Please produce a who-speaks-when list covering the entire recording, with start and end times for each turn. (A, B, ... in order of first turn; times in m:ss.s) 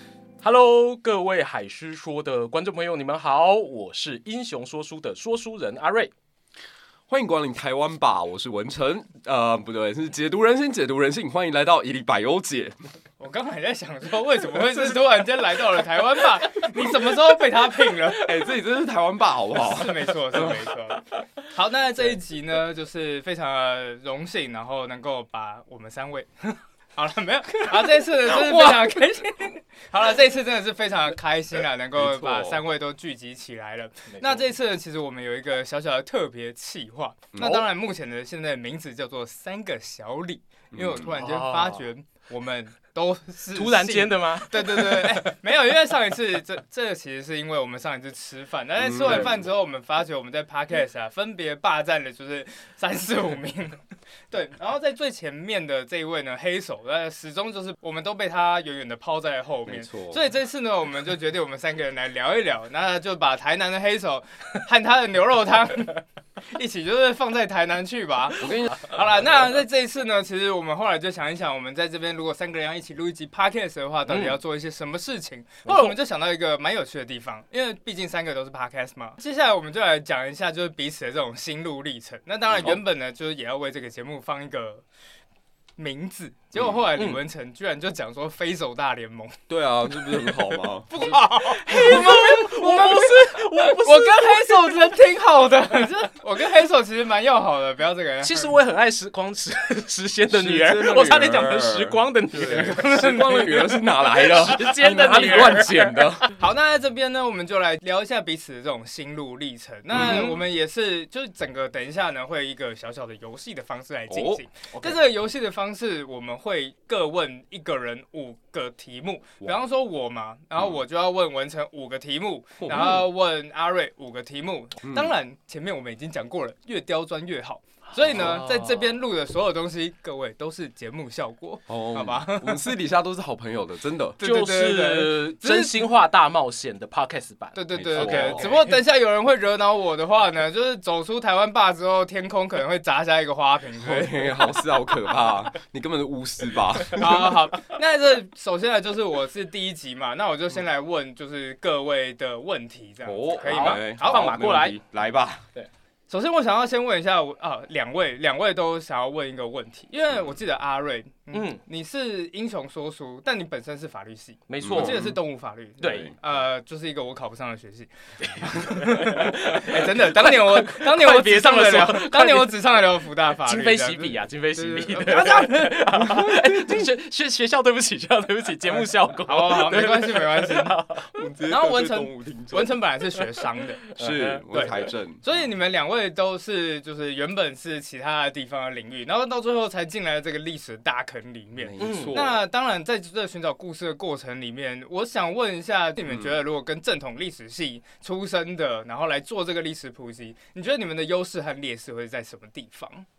0:00.4-0:06.1 A
0:07.1-0:12.8 B
0:13.2-0:18.4 C
0:18.2-0:20.7 B
0:19.6-1:24.8 C
0:32.0-0:32.6 B
0:34.1-0:34.4 A
0:37.4-0:37.7 A
0:40.7-0:41.1 B
0:41.0-0:41.9 A
0:43.6-0:45.3 A
0:48.8-0:49.5 B
0:59.6-1:00.2 B
1:08.4-1:09.0 B
1:14.1-1:14.4 A
1:15.6-1:16.0 A
1:22.5-1:22.8 B
1:25.8-1:29.4 C
1:26.6-1:26.9 B
1:27.0-1:27.2 A
1:29.5-1:31.2 B
1:29.9-1:38.6 C
1:31.0-1:34.8 A
1:38.2-1:46.3 A
1:40.3-1:46.3 B
1:42.7-1:43.6 C
1:46.4-2:12.7 C
1:49.9-1:50.3 B
1:50.0-1:50.4 A
1:54.1-1:55.0 B
2:02.6-2:03.1 B
2:04.8-2:05.2 B
2:08.0-2:08.9 A
2:11.7-2:14.2 B
2:14.2-2:15.8 C
2:14.2-2:18.7 A
2:17.6-2:24.5 C
2:17.7-2:18.5 B
2:23.8-2:27.4 B
2:26.9-2:27.3 A
2:26.9-2:34.5 C
2:33.0-2:35.5 B
2:33.4-2:34.8 A
2:36.1-2:56.0 C
2:41.3-2:41.6 A
2:44.5-2:45.1 A
2:44.6-2:45.2 B
2:45.8-2:46.1 A
2:45.8-2:46.2 B
2:48.2-2:52.6 A
2:53.4-3:01.1 A
2:55.9-2:56.9 B
2:59.3-3:00.8 C
3:01.1-3:02.8 B
3:01.5-3:03.8 C
3:03.8-3:04.9 A
3:04.0-3:05.2 B
3:04.5-3:23.1 C
3:11.6-3:12.4 B
3:11.8-3:12.2 A
3:16.1-3:16.4 B